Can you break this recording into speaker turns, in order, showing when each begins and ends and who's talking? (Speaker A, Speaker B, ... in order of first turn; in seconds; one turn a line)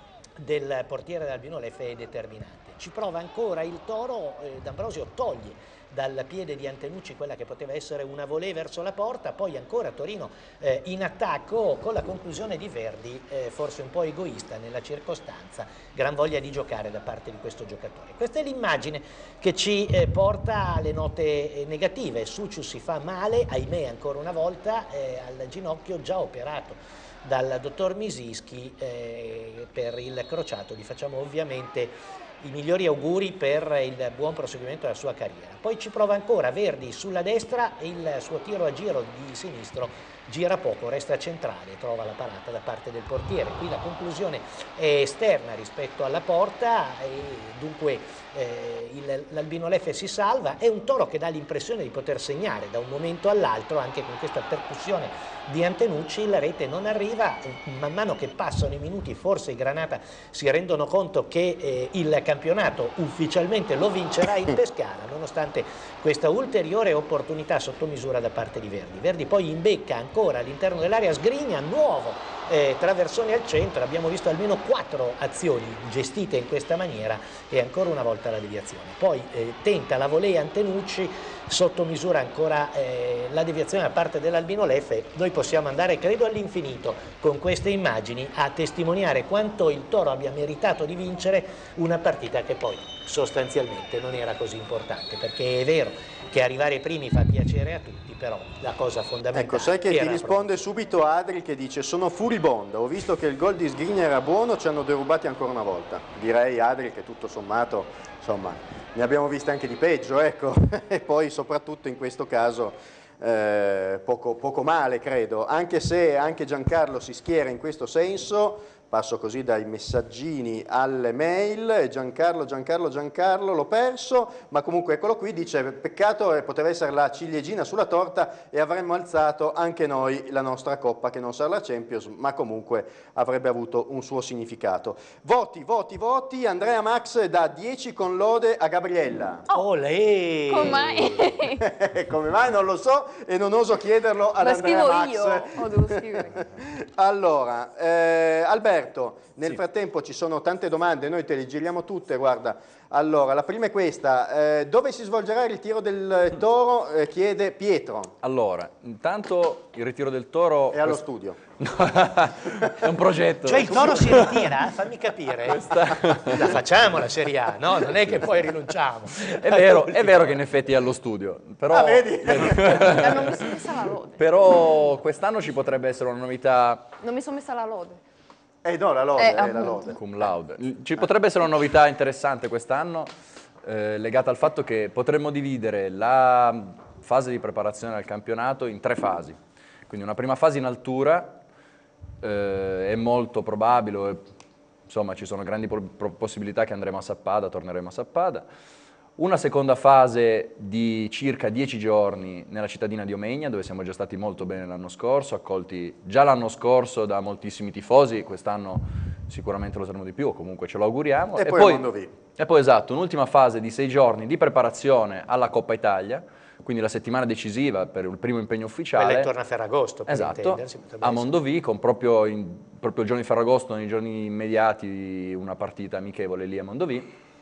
Speaker A: 0.4-100.6
Speaker B: 99.3-139.4
Speaker A: 139.5-140.9
Speaker C: 140.5-141.6
Speaker B: 140.6-158.1
Speaker C: 144.4-146.4
Speaker D: 158.2-161.0
Speaker B: 160.7-161.4
Speaker D: 161.6-164.6
Speaker A: 163.4-170.4
Speaker D: 165.5-166.6
Speaker D: 169.4-173.4
Speaker B: 171.7-173.0
Speaker C: 172.8-174.2
Speaker D: 174.2-176.9
Speaker C: 177.0-178.0
Speaker B: 178.6-180.0
Speaker C: 179.2-180.0
Speaker D: 180.0-183.1
Speaker D: 183.6-191.4
Speaker D: 192.2-194.2
Speaker D: 194.9-198.5
Speaker D: 199.2-211.9
Speaker B: 211.4-212.1
Speaker D: 212.4-219.3
Speaker A: 219.0-221.3
Speaker D: 220.1-227.1